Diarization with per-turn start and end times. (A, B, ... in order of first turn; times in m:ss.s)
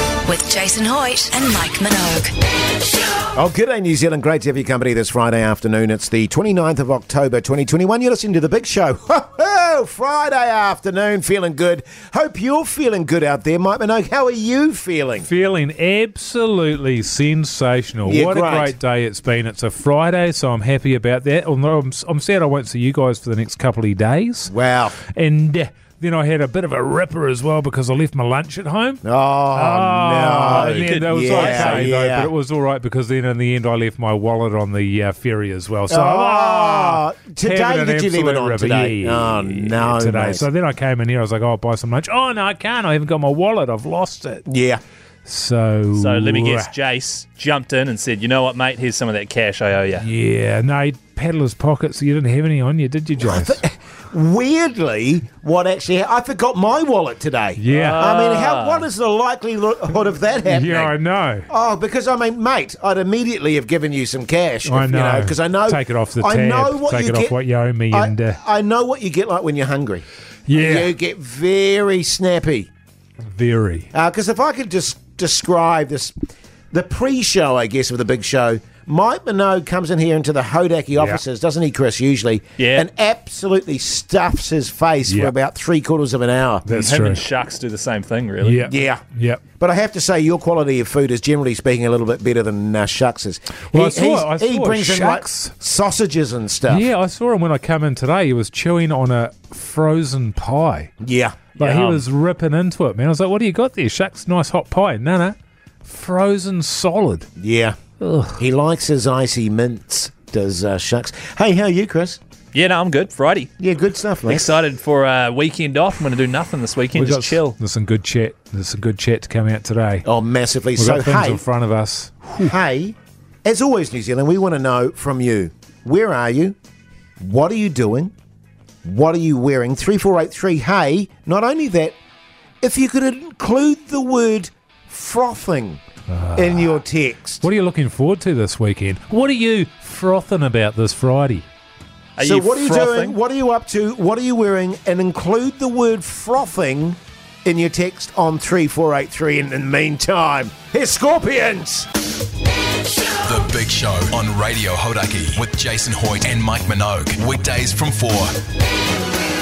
0:00.2-0:02.3 A
0:03.4-0:15.3 B
0:15.2-0:24.5 C
0:18.0-0:18.8 B
0:24.5-0:25.0 B
0:25.0-0:44.4 C
0:29.0-0:32.3 B
0:31.2-0:31.8 D
0:35.9-0:40.5 B
0:44.4-0:44.8 B
0:45.2-0:46.7 C
0:45.9-0:50.1 D
0:50.0-0:53.6 C
0:53.2-1:01.0 B
0:57.6-0:58.0 C
0:57.7-0:58.9 D
1:00.4-1:01.5 C
1:01.5-1:07.4 B
1:04.6-1:08.4 C
1:07.9-1:12.7 B
1:10.5-1:10.9 C
1:13.3-1:13.9 C
1:13.9-1:16.1 B
1:16.7-1:26.6 B
1:22.6-1:22.8 D
1:25.1-1:25.3 C
1:26.6-1:27.2 C
1:26.7-1:28.7 D
1:28.4-1:29.4 C
1:28.7-1:29.0 B
1:29.6-1:36.9 B
1:33.7-1:35.5 C
1:36.7-1:40.9 C
1:41.0-1:42.0 B
1:41.6-1:47.3 C
1:47.4-1:47.8 B
1:48.0-1:48.4 C
1:48.4-1:52.2 B
1:52.5-1:53.5 D
1:53.6-1:54.5 B
1:54.3-1:57.6 D
1:56.9-2:00.0 C
2:00.0-2:01.4 B
2:00.8-2:02.5 C
2:02.4-2:06.6 B
2:07.2-2:08.1 B
2:08.8-2:12.0 B
2:12.6-2:15.8 B
2:16.1-2:16.8 C
2:16.3-2:17.4 B
2:17.4-2:21.4 C
2:22.2-2:23.1 D
2:22.2-2:31.9 B
2:33.2-2:38.4 E